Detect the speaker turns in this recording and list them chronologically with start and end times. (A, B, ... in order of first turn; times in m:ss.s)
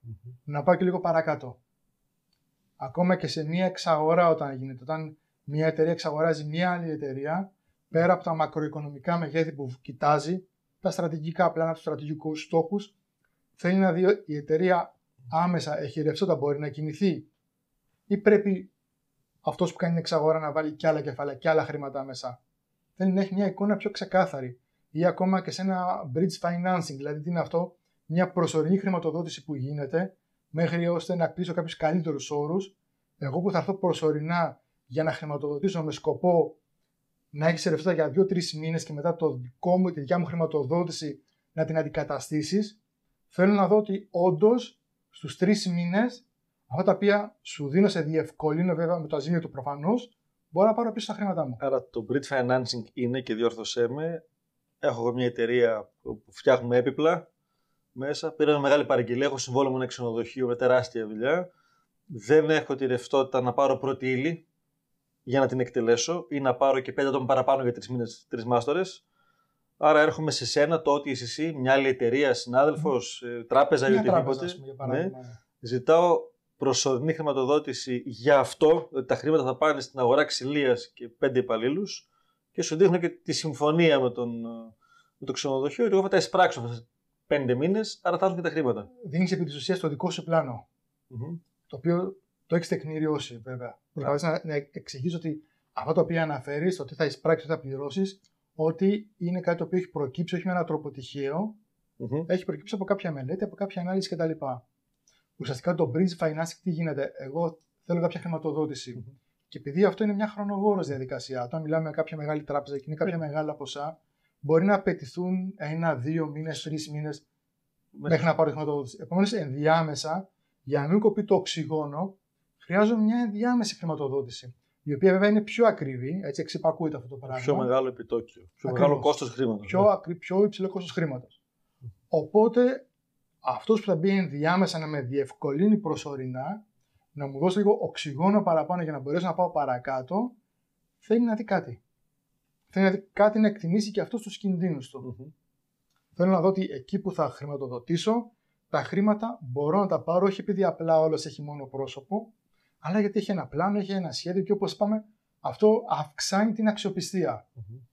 0:00.5-0:01.6 A
0:02.8-0:12.9 A
0:13.6-0:17.3 A
0:18.1-0:18.7 A
0:19.4-0:22.4 A
0:23.0-0:36.6 A
0:37.3-0:42.8 A
0:43.3-0:51.6 A
0:51.6-0:54.2 B
0:54.8-0:57.2 B
0:58.0-1:01.5 B
1:02.1-1:04.4 B
1:05.3-1:09.0 B
1:09.8-1:28.9 B
1:13.9-1:15.4 A
1:29.0-1:30.6 A
1:31.1-1:31.4 B
1:31.7-1:41.6 A
1:42.0-1:42.3 B
1:42.3-1:44.6 A
1:45.4-1:57.2 A
1:58.0-1:58.2 B
1:58.1-2:07.7 A
2:07.3-2:09.9 B
2:08.7-2:09.1 A
2:09.6-2:11.4 A
2:12.1-2:12.9 A
2:13.4-2:16.6 A
2:17.2-2:20.4 A
2:21.0-2:21.8 A
2:22.7-2:25.1 A
2:25.0-2:25.3 B
2:26.2-2:37.4 A